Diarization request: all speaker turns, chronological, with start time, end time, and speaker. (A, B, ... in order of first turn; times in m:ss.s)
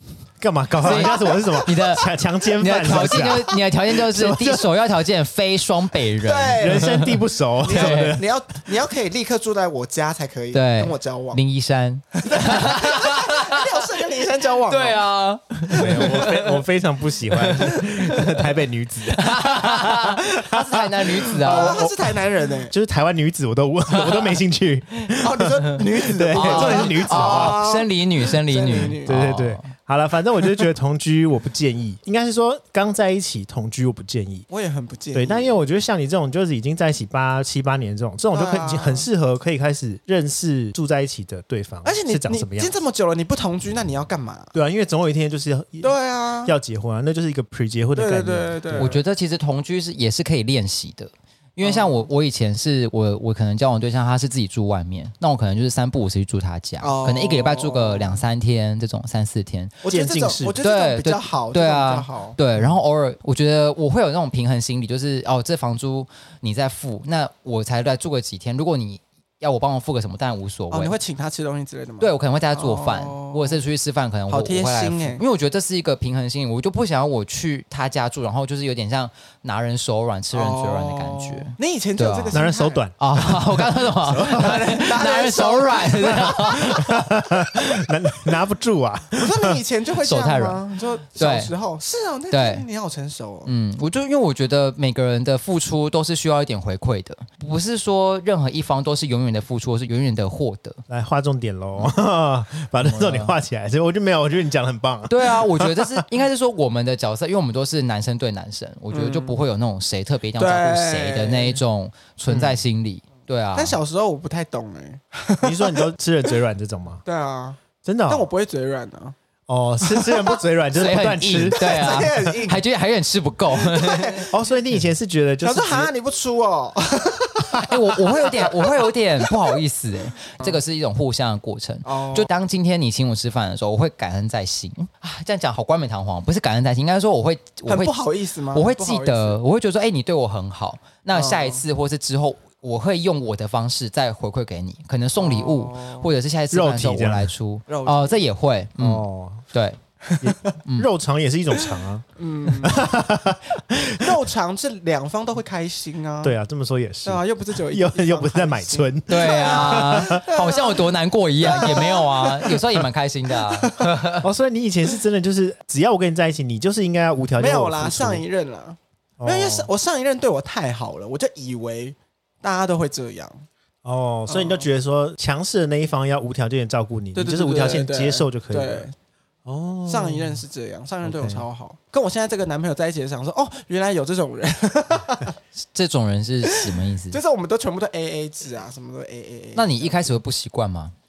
0:00.4-0:04.7 A
0:00.8-0:01.8 B
0:00.8-0:08.2 C
0:06.2-0:07.1 B
0:06.6-0:08.3 A
0:07.6-0:11.4 B
0:10.5-0:13.8 C
0:12.2-0:15.0 B
0:14.7-0:16.6 C
0:15.8-0:27.7 A
0:15.8-0:16.4 B
0:17.3-0:18.2 C
0:19.1-0:21.8 C
0:21.4-0:22.7 B
0:23.9-0:24.4 C
0:25.2-0:29.2 B
0:26.3-0:29.7 C
0:29.0-0:34.4 A
0:34.5-0:35.5 B
0:35.1-0:42.8 A
0:38.3-0:39.1 B
0:41.8-0:44.5 B
0:44.5-0:49.0 A
0:45.8-0:46.6 B
0:48.0-0:49.0 B
0:48.8-0:59.8 C
0:51.6-0:52.1 B
0:56.8-0:58.2 B
0:59.8-1:02.4 B
0:59.9-1:00.6 A
1:00.6-1:11.0 C
1:10.7-1:13.6 B
1:12.0-1:22.4 C
1:14.3-1:15.2 B
1:20.3-1:22.8 B
1:22.3-1:24.6 A
1:23.0-1:27.1 C
1:24.1-1:26.9 B
1:26.6-1:29.6 A
1:29.2-1:33.5 B
1:30.0-1:30.6 C
1:31.2-1:31.5 C
1:32.3-1:32.7 C
1:33.4-1:40.8 C
1:40.9-1:46.0 A
1:42.8-1:43.3 C
1:45.1-1:53.8 C
1:48.9-1:49.4 B
1:50.4-1:51.6 B
1:52.3-1:52.6 A
1:53.6-1:55.9 B
1:55.4-1:57.0 A
1:57.0-1:59.2 B
1:57.8-1:58.3 A
1:59.5-2:02.3 A
1:59.8-2:00.4 B
2:00.8-2:04.3 C
2:01.6-2:02.6 B
2:03.5-2:04.4 B
2:04.3-2:05.9 A
2:05.4-2:09.6 B
2:07.6-2:18.0 C
2:11.8-2:12.3 B
2:17.7-2:19.4 B
2:18.5-2:29.8 C
2:21.1-2:21.6 B
2:25.2-2:26.1 B
2:26.5-2:27.3 A
2:27.7-2:28.2 B
2:28.8-2:29.4 A
2:30.1-2:30.4 B
2:30.2-2:34.2 A
2:31.6-2:32.9 B
2:33.9-2:36.4 B
2:36.2-2:40.2 A
2:37.0-2:40.9 B
2:39.1-2:44.3 C
2:41.4-2:42.6 B
2:43.4-2:43.9 B
2:44.2-2:48.2 A
2:47.4-2:53.4 B
2:49.2-2:49.7 A
2:53.8-2:58.9 A
2:54.3-2:54.7 B
2:57.2-2:58.9 B
2:59.5-3:00.4 A
2:59.9-3:05.4 B
3:01.0-3:01.4 A
3:05.7-3:07.2 C
3:06.5-3:10.1 B
3:09.6-3:11.0 C